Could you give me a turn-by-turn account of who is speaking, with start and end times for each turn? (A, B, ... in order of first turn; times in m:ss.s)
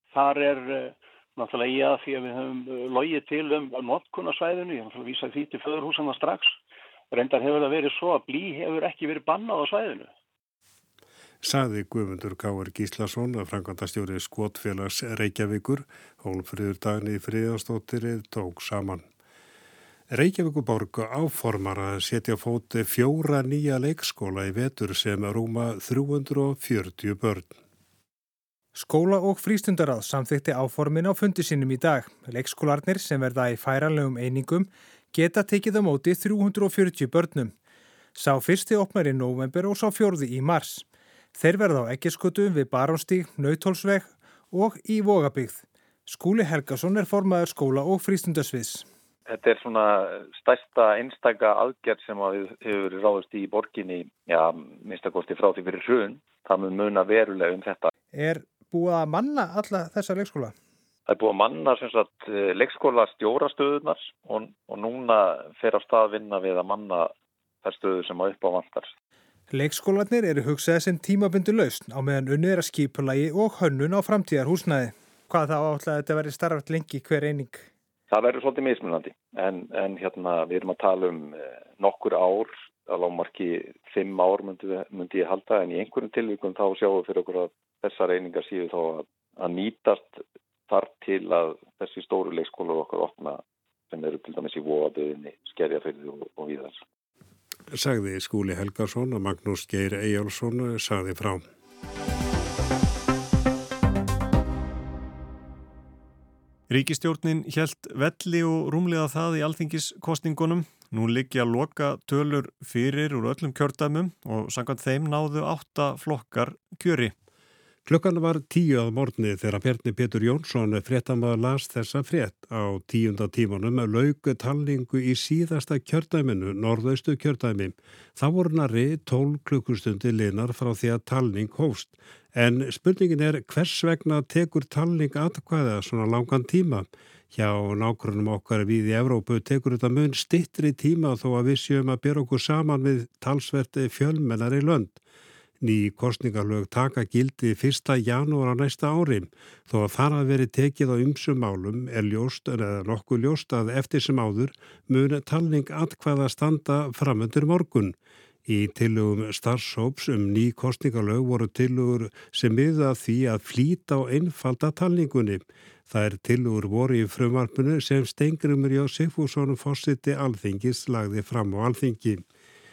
0:00.1-0:06.6 A
0:07.1-0:10.1 A
0:11.4-0:19.0 B
0:20.1-0:27.6 B
0:28.7-0:37.5 C
0:38.1-0:48.8 C
0:49.3-0:57.9 D
0:58.1-1:00.5 C
1:01.1-1:07.1 D
1:07.6-1:08.9 D
1:09.5-1:17.6 C
1:18.1-1:36.8 D
1:37.7-1:41.4 B
1:46.7-1:57.1 E
1:57.8-2:25.0 B
2:25.6-2:52.2 B